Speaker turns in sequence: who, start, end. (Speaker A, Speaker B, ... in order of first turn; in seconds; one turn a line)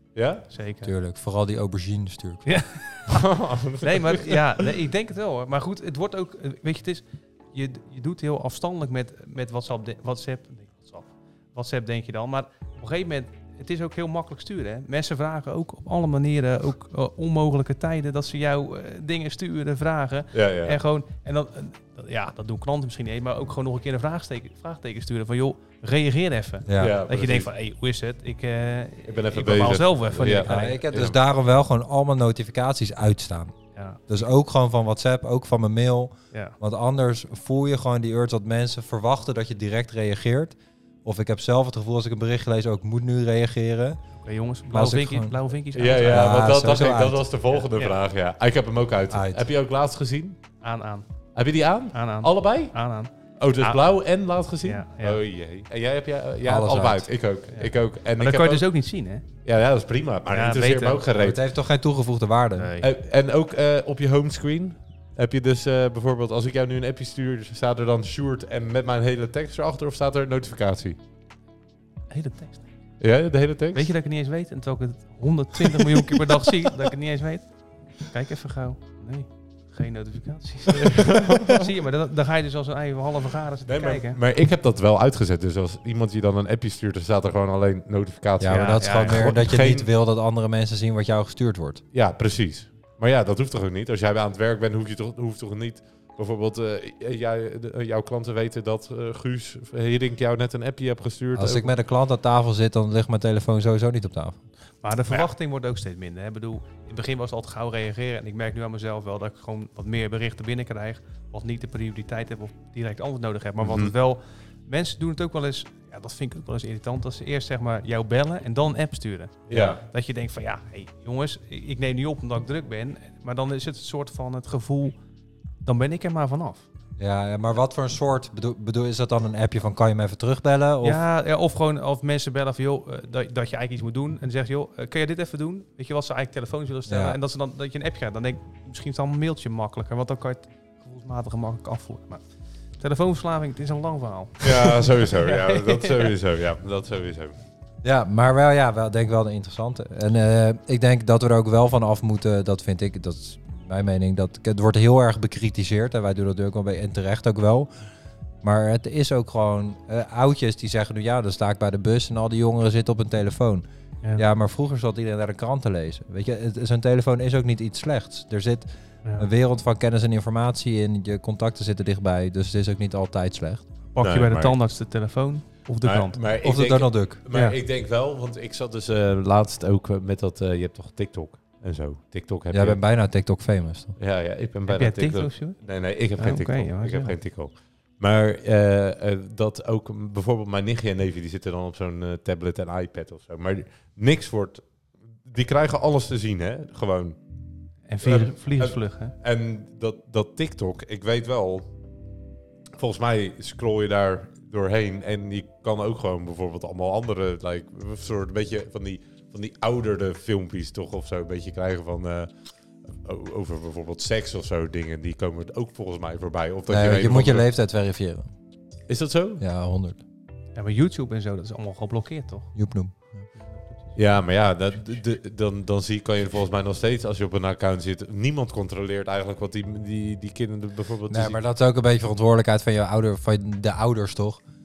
Speaker A: 0.1-0.5
Speaker B: 0.5-0.9
Speaker C: 0.8-2.6
Speaker B: 2.5-30.8
Speaker A: 3.1-4.5
Speaker A: 20.3-20.8
Speaker C: 26.7-27.0
Speaker A: 26.8-27.5
Speaker A: 29.1-31.2
Speaker C: 30.4-33.5
Speaker B: 33.8-34.0
Speaker C: 34.1-44.0
Speaker B: 36.3-36.6
Speaker B: 44.2-46.4
Speaker C: 44.7-45.4
Speaker A: 45.7-50.4
Speaker C: 46.0-47.3
Speaker B: 47.5-48.0
Speaker C: 49.1-49.5
Speaker B: 50.6-51.1
Speaker A: 51.4-52.8
Speaker B: 51.9-53.9
Speaker A: 53.4-58.7
Speaker B: 54.6-55.2
Speaker C: 56.5-57.1
Speaker B: 57.5-59.2
Speaker A: 59.5-61.4
Speaker B: 60.3-61.1
Speaker C: 61.2-62.7
Speaker B: 62.6-62.9
Speaker A: 62.8-71.0
Speaker B: 72.1-72.7
Speaker A: 73.0-73.9
Speaker B: 73.7-77.5
Speaker B: 78.0-84.2
Speaker A: 80.8-81.6
Speaker A: 83.7-89.9
Speaker C: 88.4-91.8
Speaker B: 88.5-89.2
Speaker A: 91.9-101.7
Speaker C: 101.3-104.4
Speaker B: 104.8-125.0
Speaker A: 113.6-113.9
Speaker A: 119.5-119.8
Speaker B: 125.7-126.7
Speaker C: 127.0-131.0
Speaker B: 130.8-142.2
Speaker C: 136.9-137.2
Speaker B: 142.8-146.1
Speaker A: 144.4-147.3
Speaker C: 147.8-157.7
Speaker C: 158.4-163.7
Speaker C: 164.2-173.7
Speaker B: 173.9-176.2
Speaker A: 174.0-174.6
Speaker A: 175.8-182.8
Speaker C: 176.4-177.2
Speaker B: 177.3-177.6
Speaker C: 182.5-183.9
Speaker A: 184.0-194.6
Speaker B: 184.7-185.6
Speaker B: 186.2-187.1
Speaker A: 195.2-197.2
Speaker B: 197.9-199.2
Speaker A: 198.0-201.7
Speaker A: 202.8-212.3
Speaker A: 212.9-217.5
Speaker C: 216.7-218.3
Speaker A: 218.9-219.4
Speaker C: 219.4-220.0
Speaker B: 220.6-222.6
Speaker C: 222.6-223.2
Speaker B: 223.3-224.0
Speaker A: 224.0-231.4
Speaker C: 231.1-234.4